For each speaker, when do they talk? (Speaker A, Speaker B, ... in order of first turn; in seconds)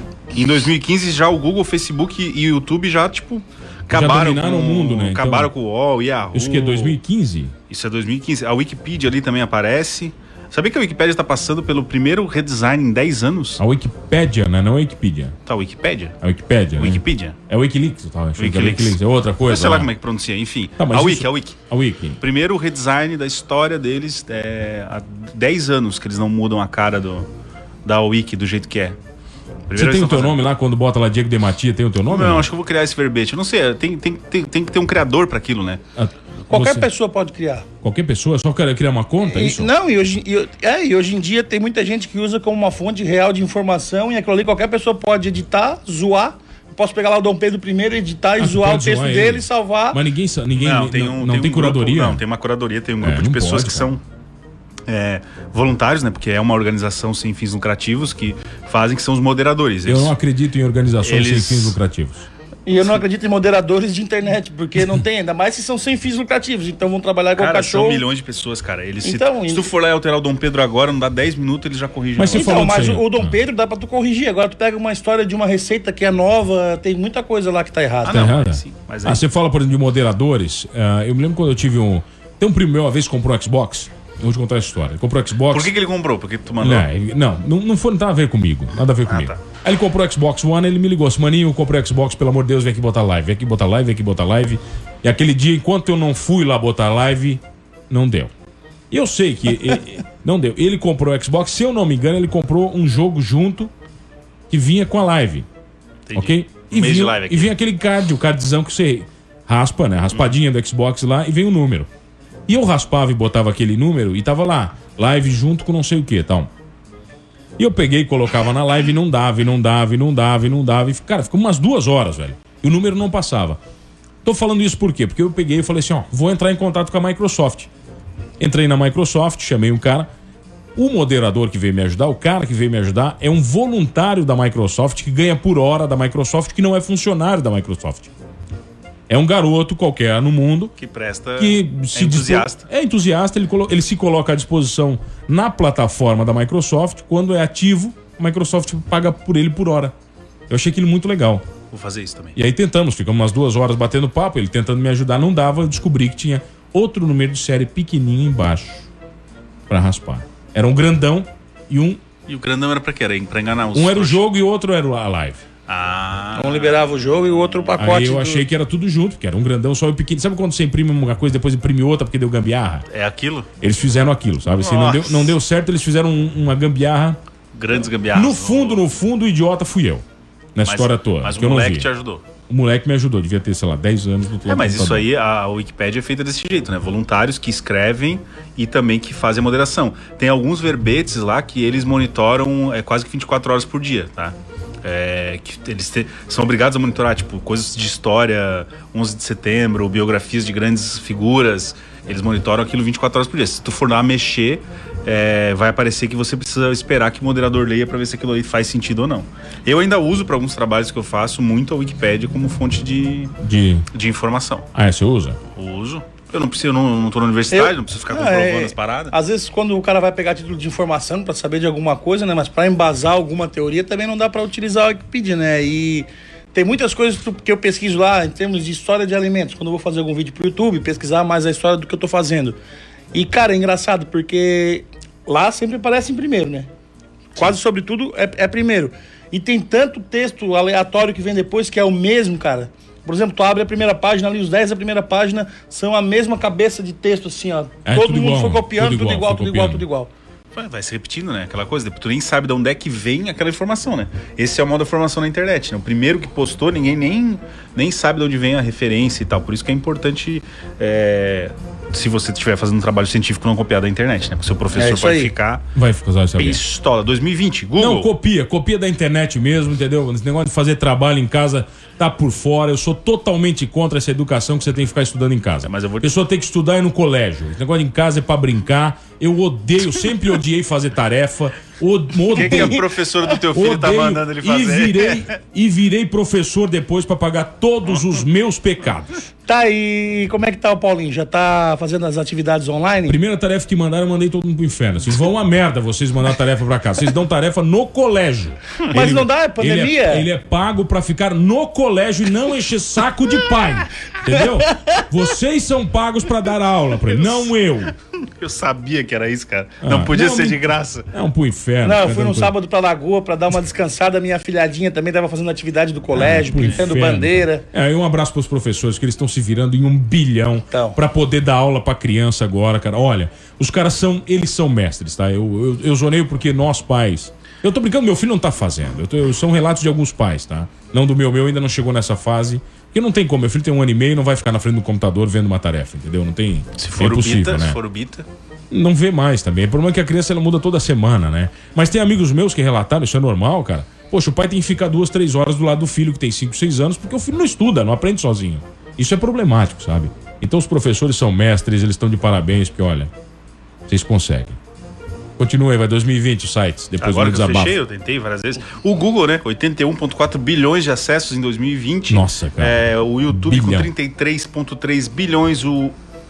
Speaker A: 0.3-7.0, 7.7-13.6, 15.5-16.2, 16.8-17.4, 18.4-21.6, 22.2-27.3, 27.8-29.0, 29.7-30.5, 32.1-35.8, 50.6-54.0, 54.9-60.1, 61.0-61.8, 67.4-72.6, 78.0-79.2, 85.5-86.9, 89.1-89.4, 106.1-107.5, 140.8-142.7, 151.7-152.4, 162.3-164.2, 165.7-166.8, 172.9-173.5, 174.5-175.3, 177.5-178.8, 180.7-182.2, 184.5-213.3, 213.9-214.7, 215.6-219.1, 250.6-265.7, 266.4-268.1, 275.6-276.1, 282.3-285.4, 307.1-307.5, 308.2-311.1, 336.8-338.3, 357.0-365.9
Speaker B: 3.9-5.5, 6.3-7.5, 13.6-15.3, 16.2-19.9, 20.8-22.2, 29.7-32.5, 36.0-36.9, 37.8-39.7, 48.4-52.2, 53.0-53.9, 59.9-62.3, 72.2-73.3, 78.1-85.7, 86.6-98.3, 98.9-103.7, 104.5-105.5, 106.1-111.9, 112.5-116.5, 117.6-123.6, 124.2-127.7, 128.4-130.1, 130.8-138.1, 139.1-140.7, 141.4-149.9, 150.5-151.4, 152.4-158.9, 159.7-162.0, 163.7-165.4, 167.8-172.9, 173.6-177.2, 178.1-180.0, 180.6-181.9, 182.5-185.1, 213.4-213.8, 214.7-215.4, 247.8-249.9, 265.8-266.6, 267.8-282.8, 283.5-289.1, 293.1-307.9, 309.8-312.6, 316.1-337.8, 338.7-353.1, 353.9-354.6, 355.4-357.8, 362.1-363.9
Speaker C: 36.5-37.7, 39.3-50.0, 62.7-68.0, 69.0-69.7, 72.3-78.3, 166.3-168.4, 217.5-232.6, 233.1-236.7, 237.4-250.1, 264.8-265.3, 282.4-282.8, 289.5-293.2, 298.9-300.3, 304.3-305.0, 311.8-317.6, 320.7-321.0